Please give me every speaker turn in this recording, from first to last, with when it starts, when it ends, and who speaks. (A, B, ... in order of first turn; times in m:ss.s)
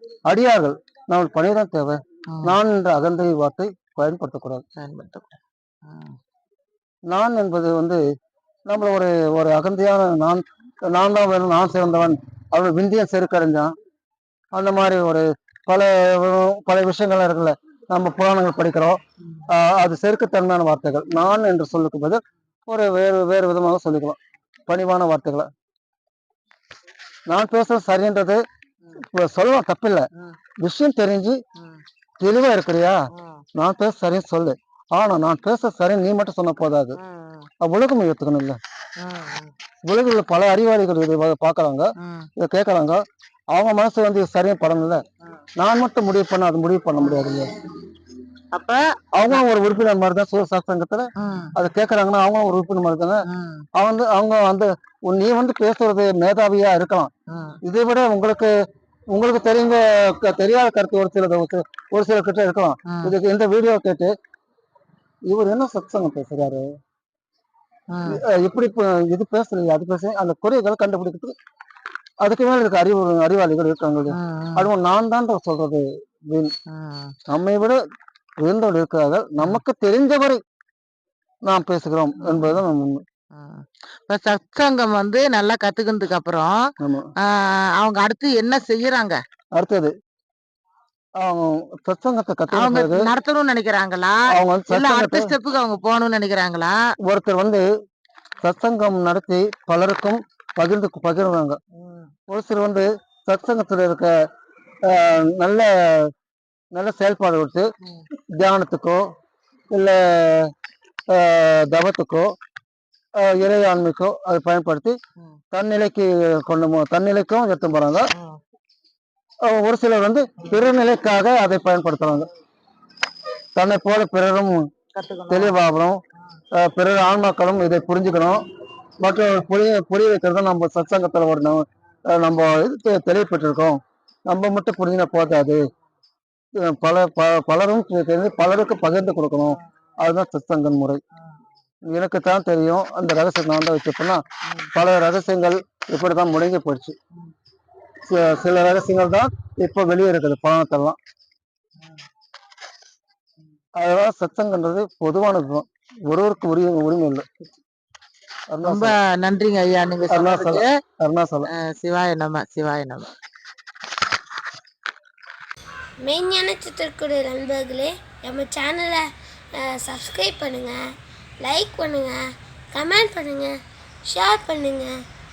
0:00.3-0:04.6 A
0:02.3-0:02.6 B
0:04.8-0:06.2 B
0:07.1-0:08.0 A
0:08.7-0:13.7 A
0:14.6-0:24.2 A
0:24.7-0:25.5 A
0:27.3-0:28.4 A
0:29.0-0:30.1 A
0:30.6-0:31.4 A
0:32.2-0:33.0 A
0:33.1-0:33.4 B
0:33.6-0:37.0 A
0:37.0-0:37.5 B
0:37.6-0:38.6 A
0:39.0-0:39.5 B
0:39.8-0:43.0 A
0:42.0-0:42.3 B
0:43.5-0:45.0 A
0:45.6-0:47.5 A
0:48.5-0:49.4 B
0:49.2-0:53.2 A
0:51.2-0:51.6 B
0:53.3-0:53.6 B
0:53.8-0:57.1 A
0:57.3-0:57.6 B
0:57.6-0:58.5 A
0:59.1-1:04.1 A
1:02.9-1:03.1 B
1:05.3-1:06.7 A
1:07.9-1:08.2 B
1:08.1-1:11.3 A
1:12.2-1:16.5 A
1:14.1-1:14.7 B
1:16.7-1:17.1 B
1:17.3-1:17.8 A
1:18.4-1:20.4 A
1:21.5-1:23.0 A
1:22.2-1:22.6 B
1:23.3-1:26.5 B
1:26.8-1:27.1 A
1:27.2-1:29.2 B
1:29.6-1:29.9 A
1:31.2-1:33.1 A
1:32.5-1:36.8 B
1:34.3-1:35.3 A
1:37.0-1:37.6 A
1:38.4-1:41.6 A
1:41.8-1:42.1 B
1:42.3-1:44.1 A
1:44.8-1:46.1 A
1:46.7-1:47.7 A
1:48.3-1:49.0 A
1:49.7-1:50.5 A
1:51.1-1:52.3 A
1:53.2-1:55.0 A
1:55.5-1:58.1 A
1:58.1-1:58.4 B
1:59.4-2:02.3 A
2:03.6-2:04.7 A
2:05.0-2:05.6 B
2:05.3-2:06.0 A
2:06.6-2:08.4 A
2:09.0-2:15.6 A
2:16.6-2:21.0 A
2:21.9-2:24.2 A
2:24.7-2:27.0 A
2:28.1-2:31.0 A
2:33.8-2:37.3 A
2:38.5-2:39.0 A
2:38.6-2:40.7 B
2:40.1-2:41.5 A
2:41.5-2:43.1 B
2:46.0-2:50.9 C
2:51.4-2:52.2 C
2:52.7-2:53.6 C
2:54.1-2:55.0 C